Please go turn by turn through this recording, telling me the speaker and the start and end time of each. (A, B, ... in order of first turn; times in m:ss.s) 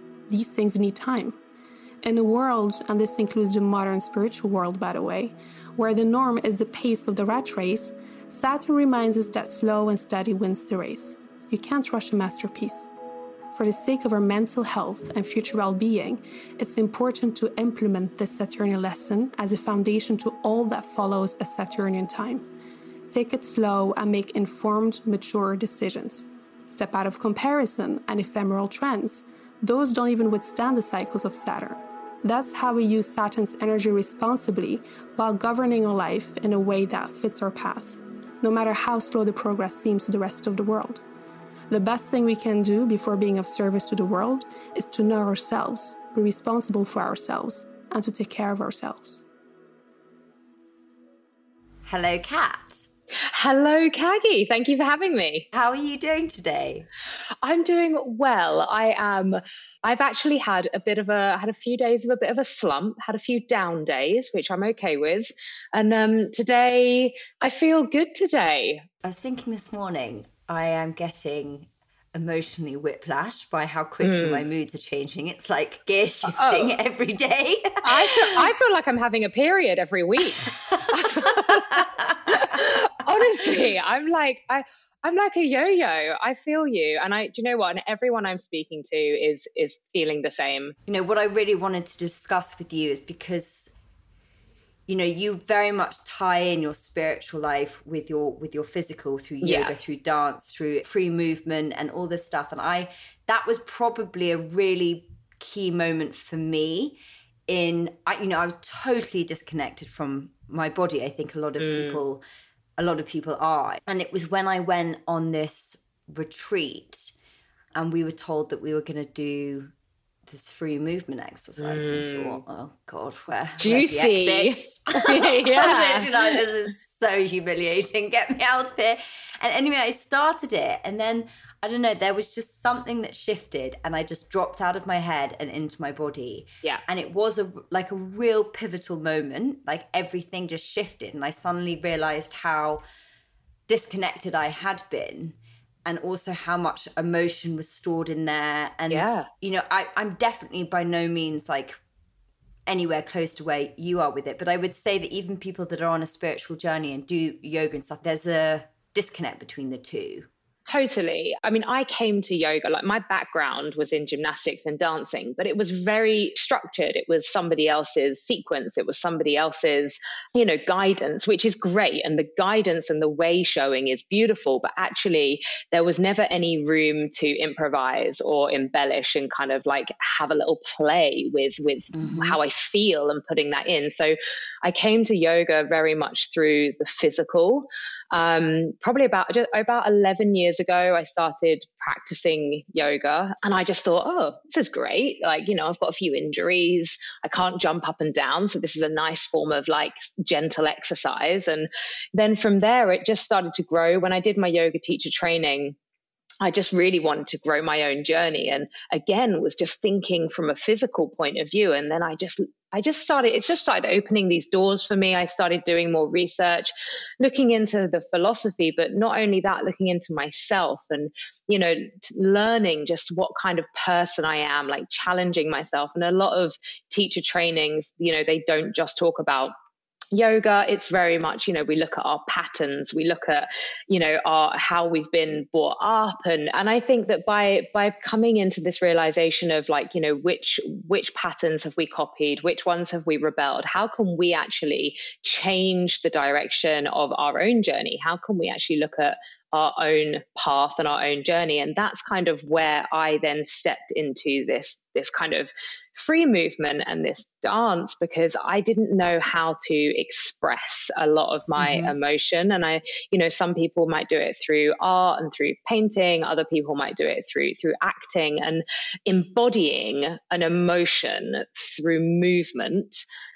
0:00.3-0:01.4 A
0:02.0-0:12.9 A
0:13.5-0:22.5 A
0:23.1-0:41.0 A
0:41.7-0:49.2 A
0:51.9-0:52.9 B
0:53.3-0:55.5 C
0:55.5-0:56.9 B
0:57.4-1:08.8 C
1:09.0-1:18.4 B
1:14.0-1:14.4 C
1:16.3-1:16.8 C
1:17.8-1:30.8 C
1:20.5-1:22.5 B
1:30.9-1:33.7 B
1:34.9-1:47.0 B
1:39.4-1:39.7 C
1:47.5-1:52.2 B
1:51.6-1:52.0 C
1:52.8-1:57.1 B
1:57.8-1:59.7 B
2:00.3-2:22.8 B
2:01.6-2:02.4 C
2:03.6-2:06.4 C
2:23.7-2:31.8 B
2:28.9-2:29.3 C
2:32.7-2:40.3 B
2:40.7-3:25.8 C
3:01.9-3:02.4 B
3:26.4-3:49.5 C
3:50.1-4:33.0 C
4:21.6-4:21.9 B